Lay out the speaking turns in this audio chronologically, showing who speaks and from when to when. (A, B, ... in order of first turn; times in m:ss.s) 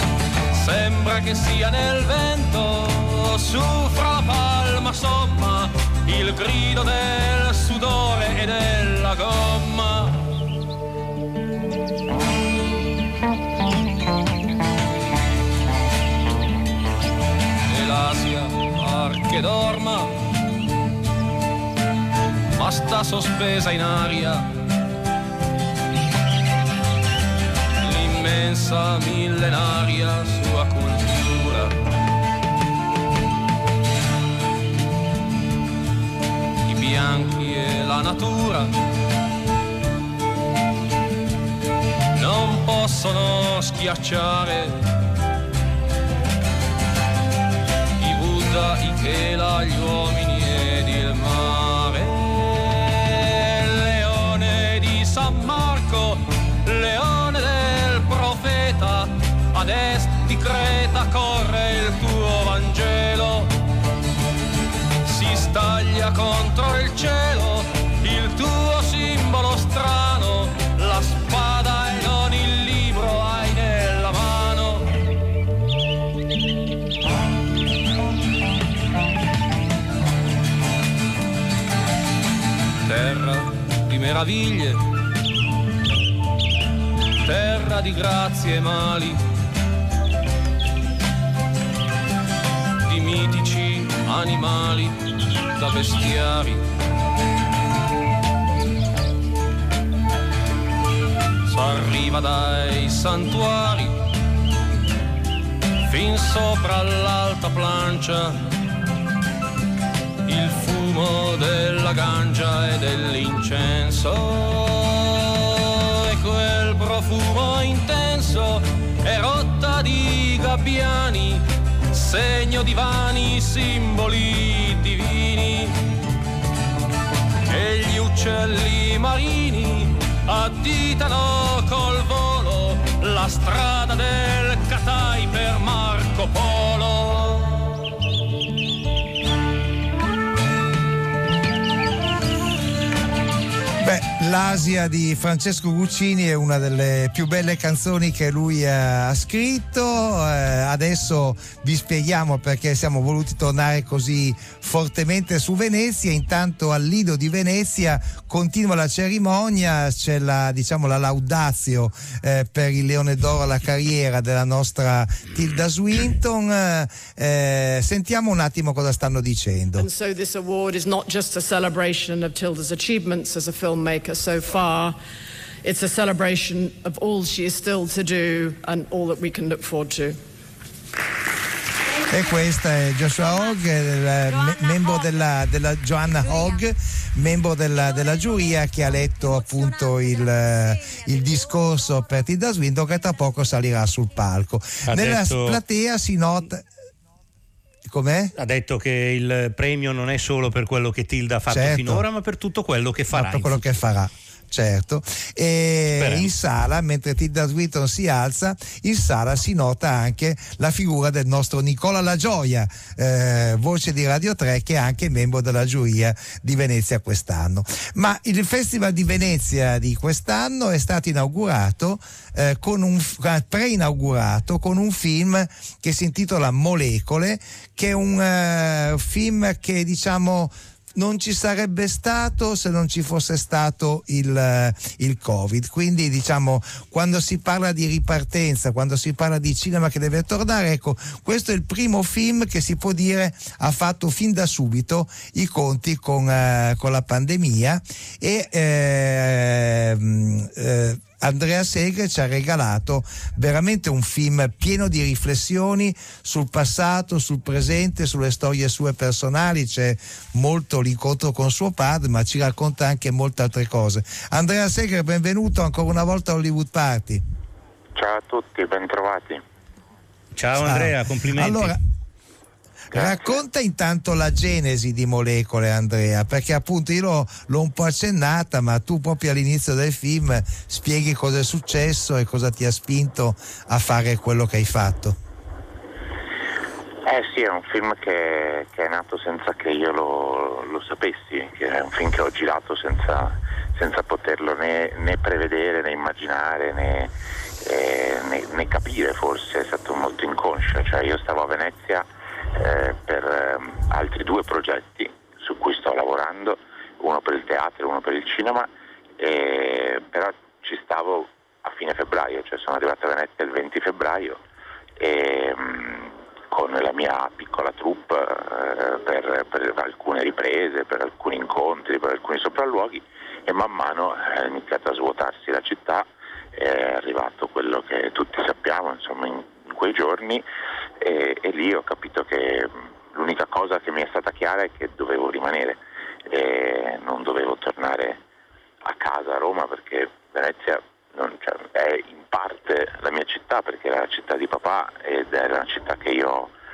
0:00.5-0:10.2 A
0:17.7-0:20.1 A
0:22.5-0:24.5 A
0:27.8-0:31.7 A
0:36.6-0:38.7 A
0:42.1-0:44.8 A
0:48.0-1:03.5 A
1:05.0-1:14.9 A
1:22.8-1:24.8 A
1:27.2-1:29.2 A
1:32.8-1:36.6 A
1:41.4-1:44.0 A
1:45.8-1:48.5 A
1:50.2-2:05.8 A
2:07.5-2:17.8 A
2:23.8-2:49.9 B
2:49.8-2:55.0 C
2:55.6-3:00.2 C
3:02.1-3:16.6 B
3:14.8-3:15.6 D
3:17.8-3:18.3 B
3:18.4-3:23.8 D
3:21.5-3:22.0 B
3:23.1-4:27.2 B
3:26.0-3:26.3 D
4:28.0-4:29.4 E
4:30.4-4:31.8 D
4:30.6-4:31.8 B
4:32.9-4:45.2 B
4:32.9-4:33.4 E
4:47.0-4:57.1 E
4:57.6-5:02.0 E
5:02.6-5:14.4 E
5:15.0-5:30.4 E
5:31.0-5:38.2 E
5:38.8-5:46.5 E